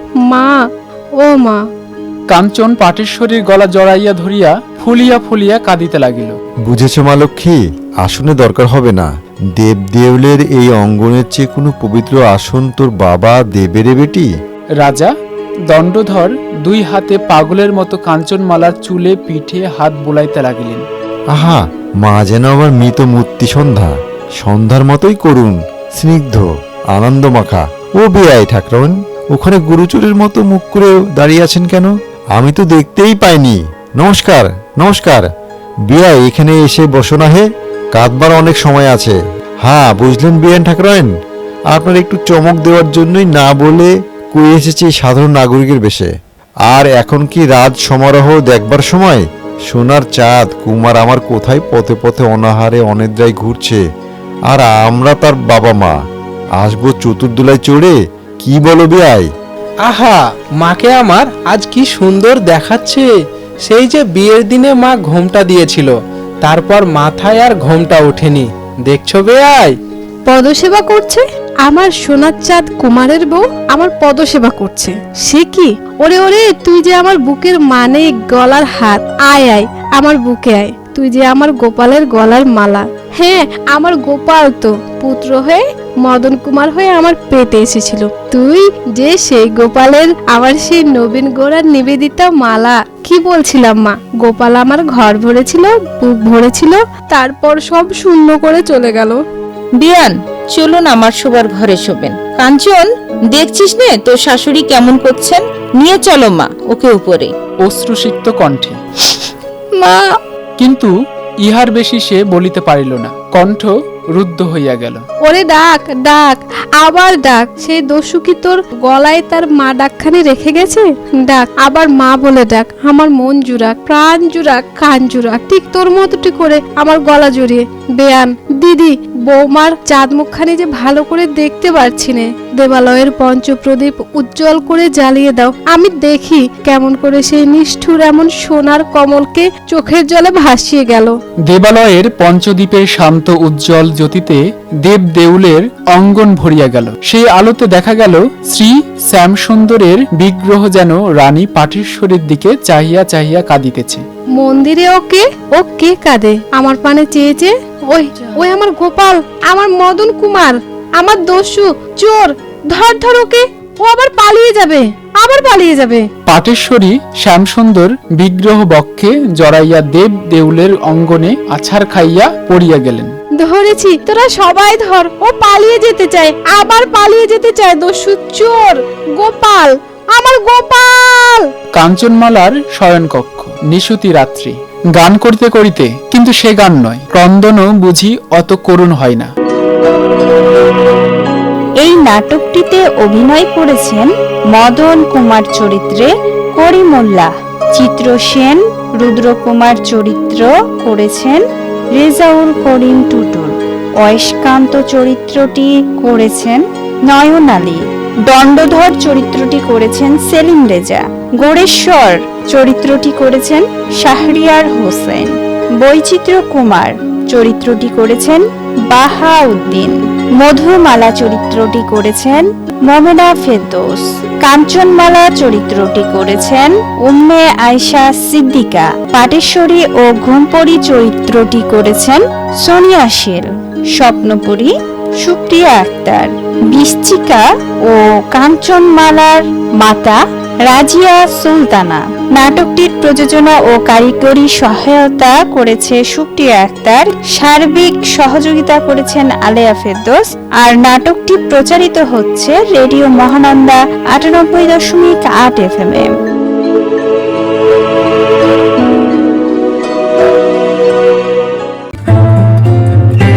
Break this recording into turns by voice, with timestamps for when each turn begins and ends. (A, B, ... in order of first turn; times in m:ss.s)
0:01.2-0:01.6 A
0:02.3-0:06.4 B
0:06.6-0:14.3 C
0:14.8-0:15.1 B
0:15.7-0:20.9 B
0:21.3-0:35.3 C
0:35.9-0:41.1 C
0:41.7-0:46.1 C
0:46.7-0:53.8 C
0:54.5-0:56.0 C
0:56.6-0:59.3 C
0:59.9-1:03.1 D
1:03.7-1:09.8 D
1:10.3-1:39.2 A
1:39.8-1:47.3 E
1:47.6-1:48.8 B
1:49.8-1:50.1 A
1:50.6-1:50.9 B
1:51.4-1:55.0 B
1:55.2-2:21.2 A
2:21.5-2:34.0 B
2:34.4-2:46.1 A
2:46.3-2:53.1 B
2:53.5-3:01.5 A
3:01.8-3:09.3 B
3:11.8-3:21.4 F
3:22.0-4:16.1 F